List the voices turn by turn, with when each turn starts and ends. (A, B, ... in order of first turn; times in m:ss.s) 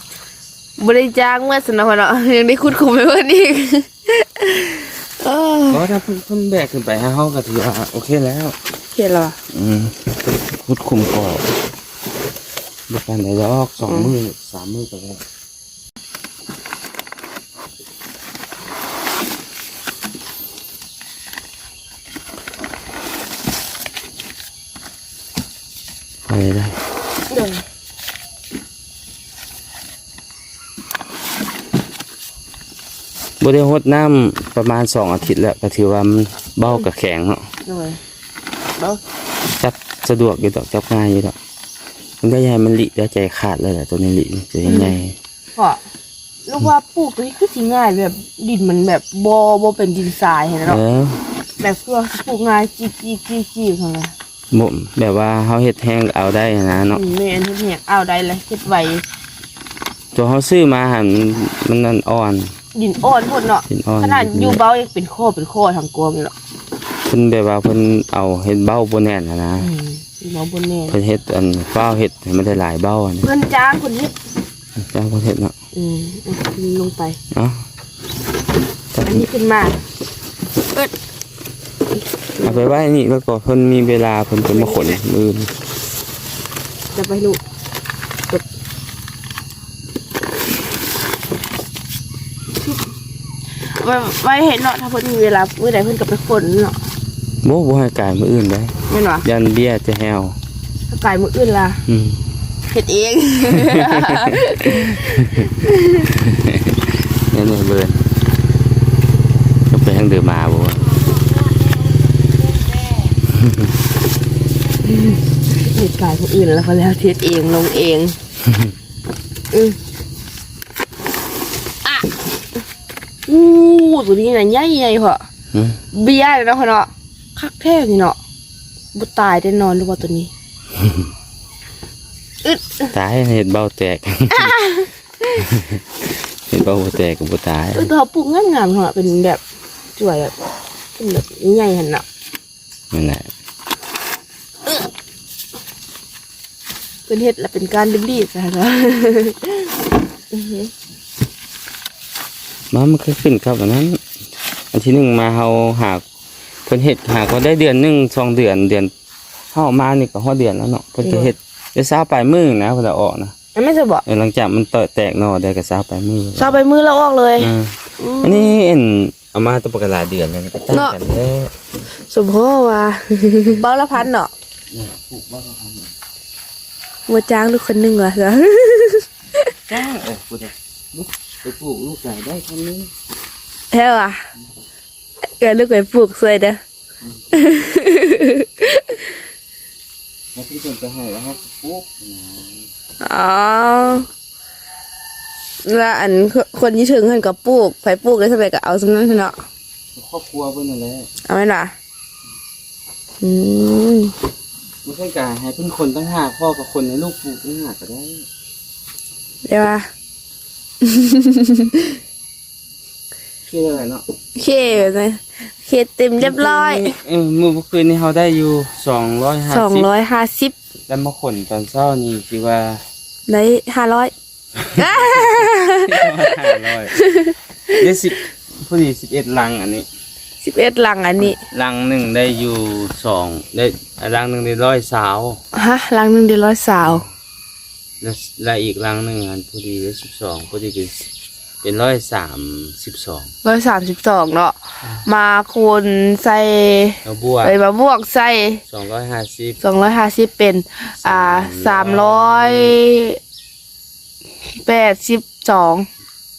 0:00.8-0:05.8 A
0:05.7-0:08.5 B
0:08.9-0:09.4 A
0:09.5-0:11.5 B
0:12.9-0:15.2 B
0:13.8-0:14.1 A
0:26.3-0:26.8 B
0:27.3-0:27.6 A
0:33.4-0:37.5 B
0:37.6-0:38.0 A
0:39.6-0:41.3 B
0:42.2-0:45.2 B
0:44.6-0:45.0 A
0:46.4-0:50.8 A
0:50.6-0:51.2 B
0:51.6-0:54.1 A
0:54.5-0:57.0 B
0:56.9-0:59.0 A
1:00.1-1:02.5 B
1:02.7-1:06.3 A
1:03.7-1:04.6 B
1:07.1-1:09.7 B
1:09.6-1:11.0 A
1:10.9-1:13.3 B
1:13.2-1:14.1 A
1:14.8-1:15.5 B
1:15.7-1:17.2 A
1:18.9-1:19.2 B
1:19.0-1:19.8 A
1:22.4-1:25.5 B
1:24.5-1:25.0 A
1:26.9-1:27.4 A
1:33.6-1:36.8 A
1:37.4-1:40.4 B
1:38.9-1:39.2 A
1:40.9-1:41.8 A
1:41.9-1:42.2 B
1:42.7-1:46.0 A
1:43.5-1:45.5 B
1:46.0-1:48.0 B
1:49.7-1:50.9 B
1:54.8-1:58.2 A
1:59.5-1:59.8 A
2:01.8-2:02.1 A
2:03.3-2:05.2 A
2:05.5-2:05.8 B
2:05.9-2:08.2 A
2:08.9-2:10.3 A
2:12.4-2:12.9 A
2:12.9-2:14.6 B
2:14.3-2:14.9 A
2:15.3-2:17.9 B
2:17.7-2:19.4 A
2:20.0-2:20.3 A
2:21.0-2:22.0 A
2:22.9-2:23.3 B
2:27.1-2:29.7 A
2:30.3-2:30.7 A
2:32.7-2:34.0 B
2:34.7-2:36.0 B
2:36.6-2:38.9 B
2:39.5-2:43.3 B
2:41.0-2:41.3 A
2:43.5-2:44.0 A
2:44.0-2:46.6 B
2:46.4-2:48.5 A
2:47.4-2:51.5 B
2:50.7-2:51.0 A
2:51.9-2:54.3 A
2:54.7-2:55.9 B
2:57.1-2:59.4 A
2:59.7-3:02.9 B
3:03.7-3:04.2 A
3:05.4-3:06.6 A
3:07.3-3:09.0 A
3:10.3-3:12.7 B
3:13.0-3:14.0 A
3:15.6-3:19.4 A
3:19.9-3:21.1 B
3:21.2-3:21.7 A
3:23.2-3:24.1 A
3:24.8-3:28.2 B
3:29.4-3:29.9 A
3:30.8-3:31.9 A
3:33.4-3:34.0 B
3:34.4-3:37.0 A
3:36.2-3:39.9 B
3:39.5-3:40.5 A
3:40.9-3:42.8 B
3:43.3-3:44.1 A
3:44.6-3:46.9 B
3:44.7-3:47.3 A
3:47.7-3:49.9 B
3:50.4-3:51.4 A
3:51.2-3:55.4 B
3:55.5-3:57.0 A
3:56.8-3:57.1 B
3:58.0-4:01.1 B
4:01.6-4:03.3 B
4:03.4-4:08.6 A
4:07.0-4:07.6 B
4:08.7-4:09.6 B
4:09.6-4:13.2 A
4:11.0-4:12.8 B
4:14.6-4:15.8 A